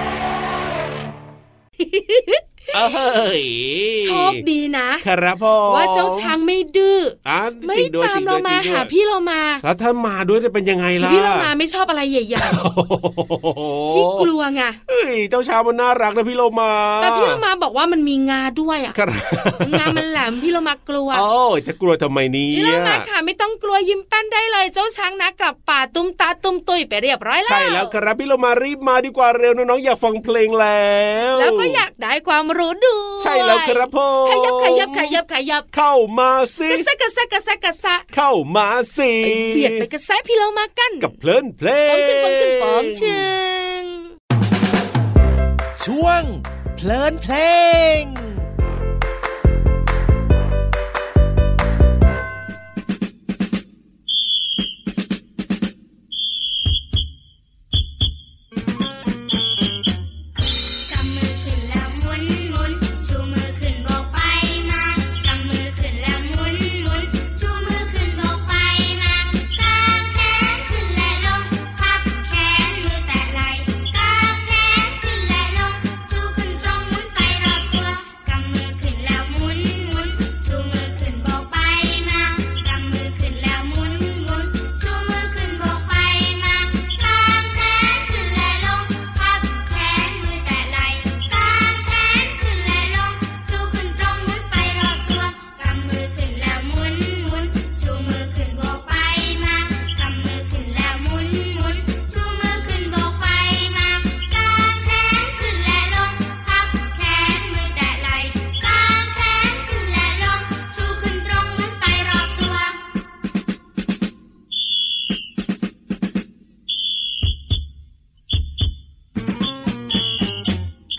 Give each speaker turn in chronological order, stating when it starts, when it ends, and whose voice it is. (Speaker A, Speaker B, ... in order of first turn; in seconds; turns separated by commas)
Speaker A: 1.8-2.7, Speaker B: 2.7-4.4, Speaker A: 4.0-5.0, Speaker B: 5.0-6.3, Speaker A: 5.7-9.6, Speaker B: 7.2-8.9, Speaker B: 9.6-11.5, Speaker A: 11.0-12.6, Speaker B: 12.4-14.3, Speaker A: 13.9-14.8, Speaker B: 14.9-17.4, Speaker A: 17.0-19.0, Speaker B: 18.9-20.0, Speaker A: 19.6-21.2, Speaker B: 21.1-23.1, Speaker A: 22.5-27.9, Speaker B: 27.5-31.8, Speaker A: 31.4-35.6, Speaker B: 33.2-35.2, Speaker B: 35.7-36.9, Speaker A: 36.7-38.0, Speaker B: 38.1-39.9, Speaker A: 39.2-41.1, Speaker B: 41.0-43.3, Speaker A: 41.9-44.1, Speaker C: 45.8-48.5, Speaker D: 60.9-112.8